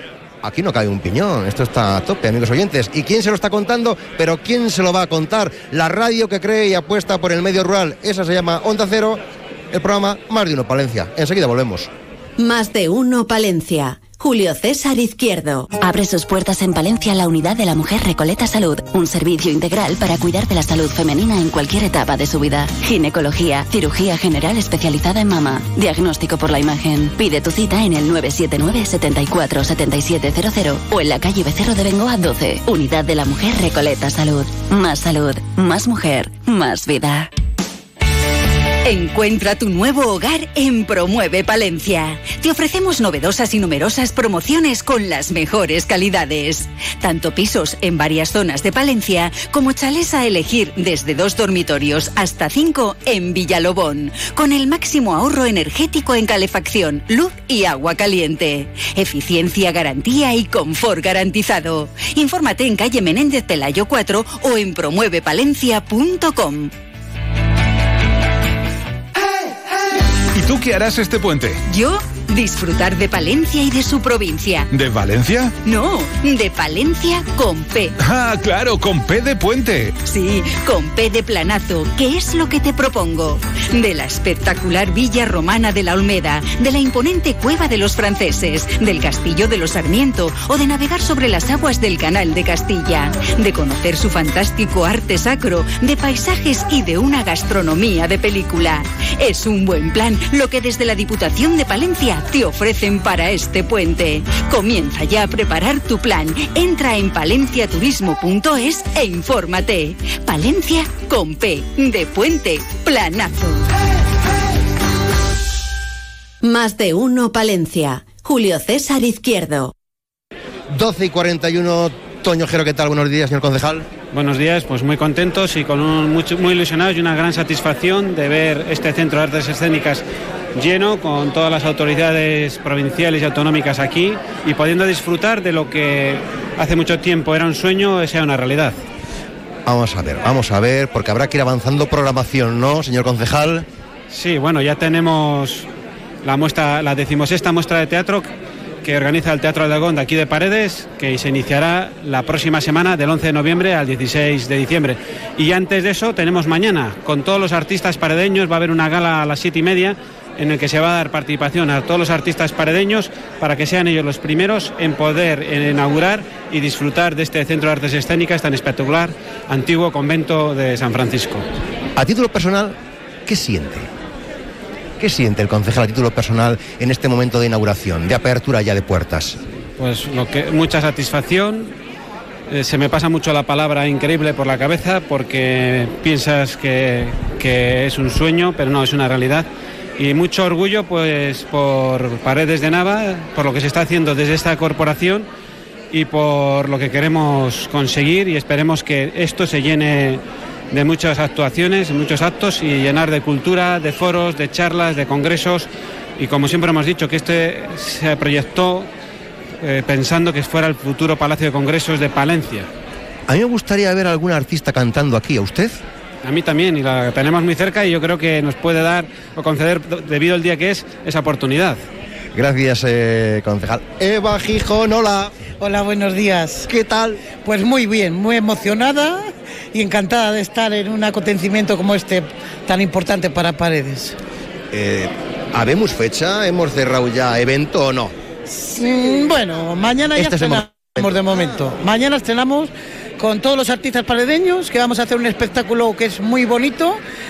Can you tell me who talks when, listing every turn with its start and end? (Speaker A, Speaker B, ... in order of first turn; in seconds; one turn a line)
Speaker A: 0.4-11.9
Speaker B: 12.4-15.7
Speaker C: 15.8-37.3
Speaker D: 38.8-66.7
Speaker E: 70.4-71.5
Speaker D: 71.7-74.7
Speaker E: 74.7-75.5
Speaker D: 75.6-77.9
Speaker E: 78.0-79.9
Speaker D: 80.0-113.7
Speaker B: 116.4-119.7
Speaker A: 120.7-123.9
Speaker F: 124.1-130.0
Speaker F: 130.5-138.8
Speaker A: 139.7-143.7
Speaker F: 144.1-145.7
Speaker F: 146.2-148.3
Speaker F: 148.8-171.4
Speaker A: 171.9-173.9
Speaker A: 175.0-179.4
Speaker F: 179.8-181.7
Speaker F: 182.5-195.3
Speaker F: 195.9-208.9
Speaker F: 209.6-212.7
Speaker A: 213.3-215.8
Speaker F: 216.2-221.8
Speaker A: 222.3-225.3
Speaker G: 225.6-226.7
Speaker A: 226.7-227.2
Speaker G: 227.3-234.2
Speaker A: 234.7-238.1
Speaker G: 238.5-247.0
Speaker A: 240.2-241.2